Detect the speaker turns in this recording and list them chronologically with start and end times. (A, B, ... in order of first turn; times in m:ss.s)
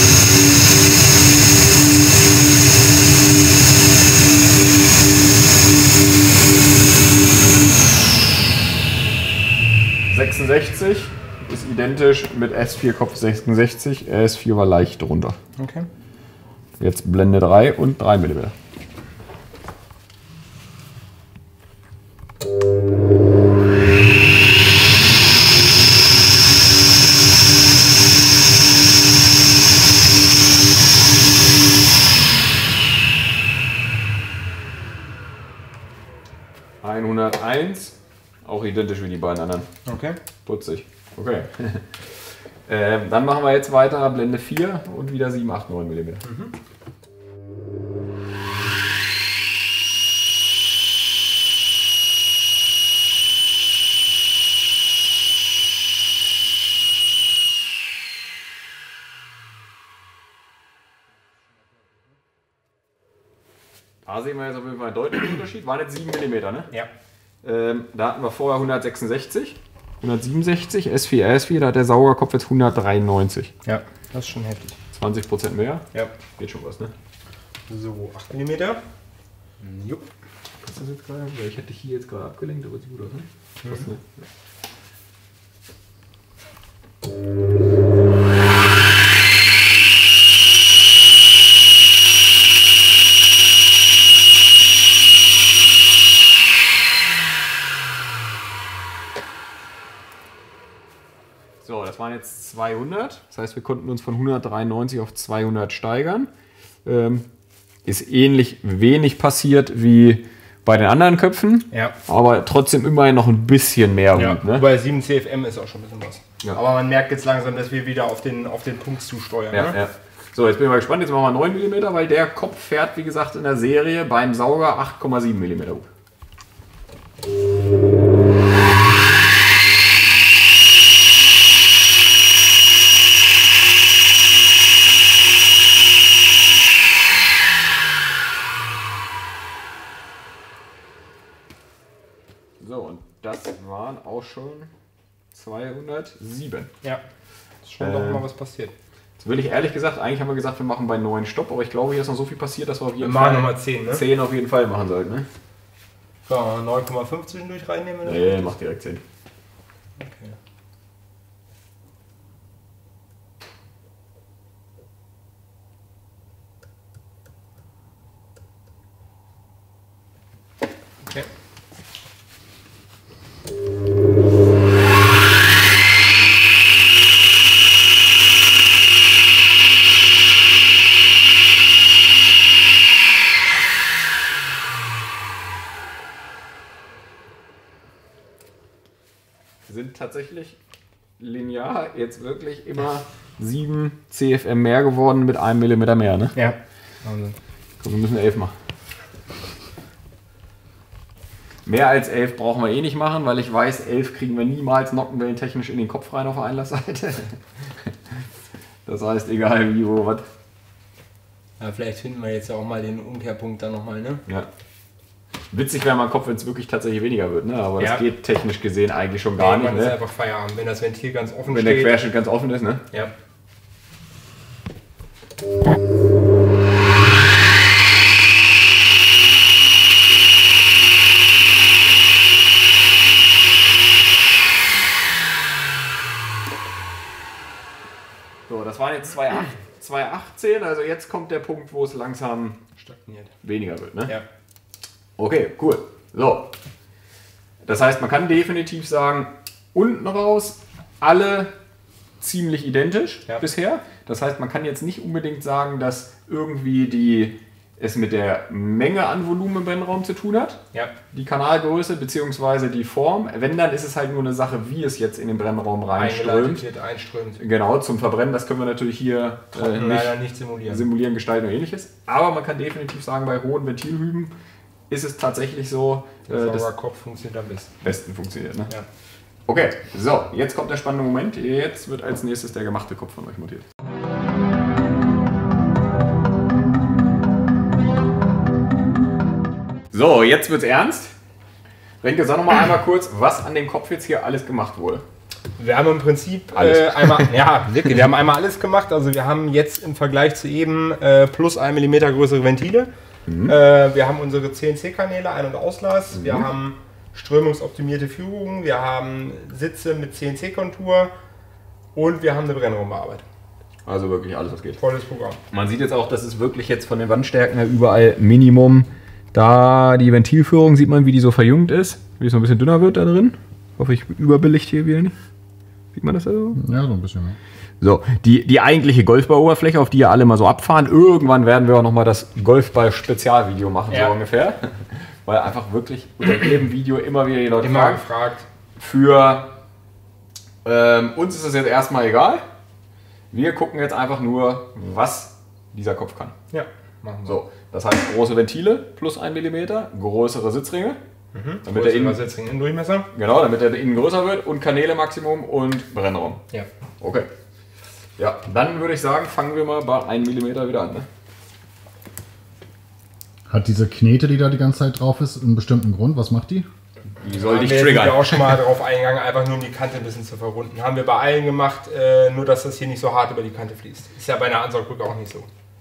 0:10.1-0:15.4 A
0:15.6-0:15.9 B
0:16.8-0:18.5 A
0:36.8-0:39.7 A
0:39.9-0:40.2 B
0:40.4-0:42.0 A
0:42.7-0:46.2 A
0:46.2-0:46.5 B
1:04.0-1:06.7 A
1:07.4-1:13.5 A
1:13.6-1:14.8 B
1:14.9-1:16.9 A
1:17.7-1:18.8 B
1:19.6-1:20.0 B
1:20.6-1:24.1 A
1:41.6-1:46.3 A
1:46.8-1:47.3 A
1:47.8-1:54.6 A
1:54.2-1:59.8 B
1:59.5-2:05.9 A
2:22.6-2:24.7 A
2:25.3-2:26.7 A
2:27.6-2:28.7 B
2:27.8-2:28.2 A
2:29.2-2:35.3 A
2:33.0-2:34.0 B
2:36.3-2:38.5 B
2:38.0-2:39.0 A
2:40.0-2:40.4 B
3:09.7-3:10.6 A
3:11.2-3:16.4 A
3:16.4-3:17.4 B
3:17.8-3:18.6 A
3:21.7-3:27.4 A
3:28.9-3:30.3 A
3:31.6-3:34.2 B
3:35.5-3:40.0 A
3:37.8-3:38.0 B
3:39.4-3:42.0 B
3:41.5-3:42.8 A
3:58.5-4:02.6 A
4:02.8-4:03.3 B
4:03.4-4:04.2 A
4:05.2-4:06.5 A
4:07.6-4:11.5 A
4:12.2-4:20.6 A
4:21.1-4:26.6 A
4:26.0-4:27.4 B
4:27.4-4:34.3 A
4:29.6-4:30.9 B
4:34.9-4:36.7 A
4:36.3-4:37.7 B
4:37.8-4:38.7 A
4:39.5-4:43.7 A
4:49.9-4:51.2 A
4:52.0-4:55.0 A
4:55.6-5:02.9 B
4:56.5-4:57.3 A
5:03.3-5:03.6 A
5:03.4-5:11.1 B
5:06.1-5:06.5 A
5:12.0-5:13.2 B
5:13.9-5:14.8 A
5:14.8-5:15.4 B
5:15.5-5:25.2 A
5:25.9-5:26.6 A
5:26.6-5:27.4 C
5:27.8-5:38.0 A
5:33.9-5:34.2 B
5:37.6-5:38.5 B
5:38.8-5:39.5 A
5:40.6-5:42.4 A
5:43.3-5:46.4 A
5:46.5-5:47.4 B
5:47.2-5:51.0 A
5:51.3-5:53.1 B
5:51.6-5:52.2 A
5:53.1-5:56.4 A
5:57.0-5:57.3 A
5:58.2-6:01.1 A
6:03.5-6:06.7 C
6:07.2-6:08.5 A
6:07.3-6:15.5 B